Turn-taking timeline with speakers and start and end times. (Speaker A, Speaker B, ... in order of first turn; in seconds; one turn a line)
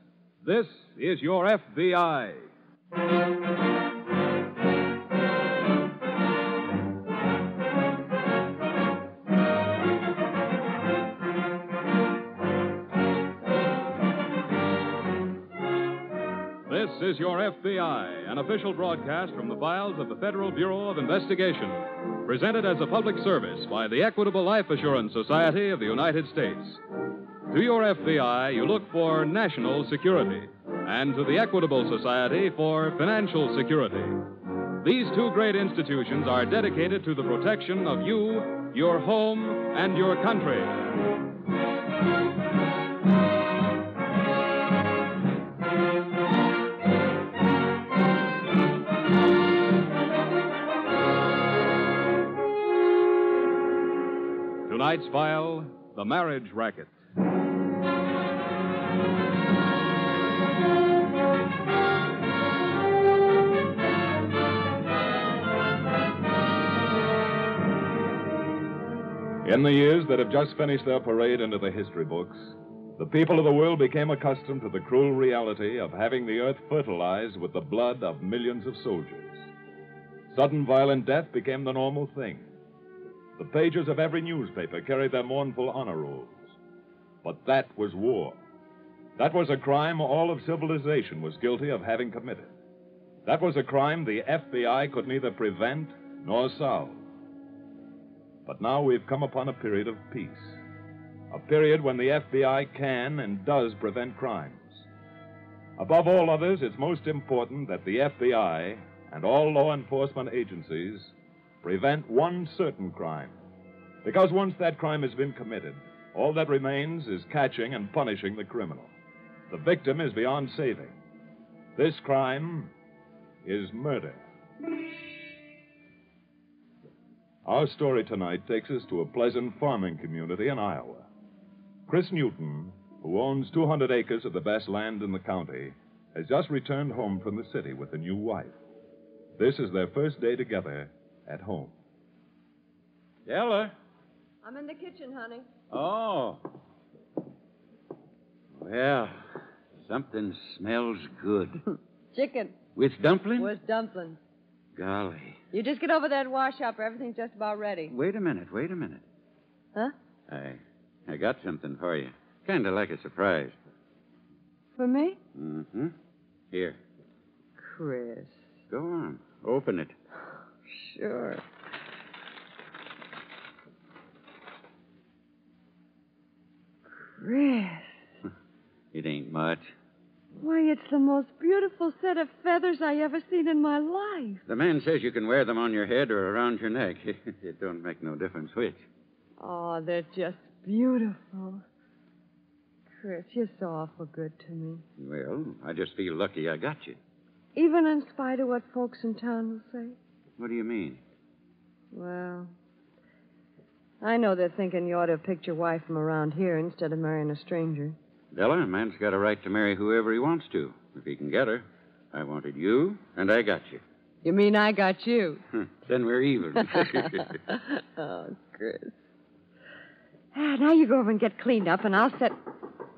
Speaker A: 0.4-2.4
Speaker A: 16.7-26.8
Speaker A: 27.5-41.0
Speaker A: 54.7-56.9
Speaker B: 69.4-79.4
Speaker B: 80.3-82.5
Speaker B: 83.4-86.4
Speaker B: 87.2-88.4
Speaker B: 89.2-92.5
Speaker B: 93.2-97.0
Speaker B: 98.5-100.6
Speaker B: 101.3-104.8
Speaker B: 105.8-113.3
Speaker B: 114.0-118.9
Speaker B: 119.5-121.0
Speaker B: 121.8-122.7
Speaker B: 123.4-124.2
Speaker B: 127.5-131.1
Speaker B: 131.9-138.5
Speaker B: 139.4-141.7
Speaker C: 143.3-143.7
Speaker D: 144.4-145.5
Speaker C: 145.7-146.5
Speaker C: 148.6-149.2
Speaker C: 149.8-151.6
Speaker D: 152.1-152.6
Speaker C: 152.8-153.5
Speaker D: 153.4-154.2
Speaker C: 154.8-155.4
Speaker D: 155.5-157.9
Speaker C: 157.9-159.0
Speaker C: 160.3-163.6
Speaker D: 164.8-165.2
Speaker C: 165.3-165.9
Speaker C: 166.5-166.8
Speaker D: 167.6-168.4
Speaker C: 168.7-169.9
Speaker D: 170.8-171.4
Speaker D: 177.0-177.9
Speaker C: 178.9-179.7
Speaker D: 180.4-184.4
Speaker C: 184.5-188.8
Speaker D: 189.4-191.6
Speaker D: 193.0-194.8
Speaker C: 195.0-197.0
Speaker D: 197.6-200.0
Speaker C: 200.4-201.0
Speaker D: 201.9-202.5
Speaker D: 204.0-208.0
Speaker C: 208.3-213.8
Speaker D: 214.2-215.4
Speaker C: 215.8-217.3
Speaker D: 216.6-218.9
Speaker D: 220.3-222.4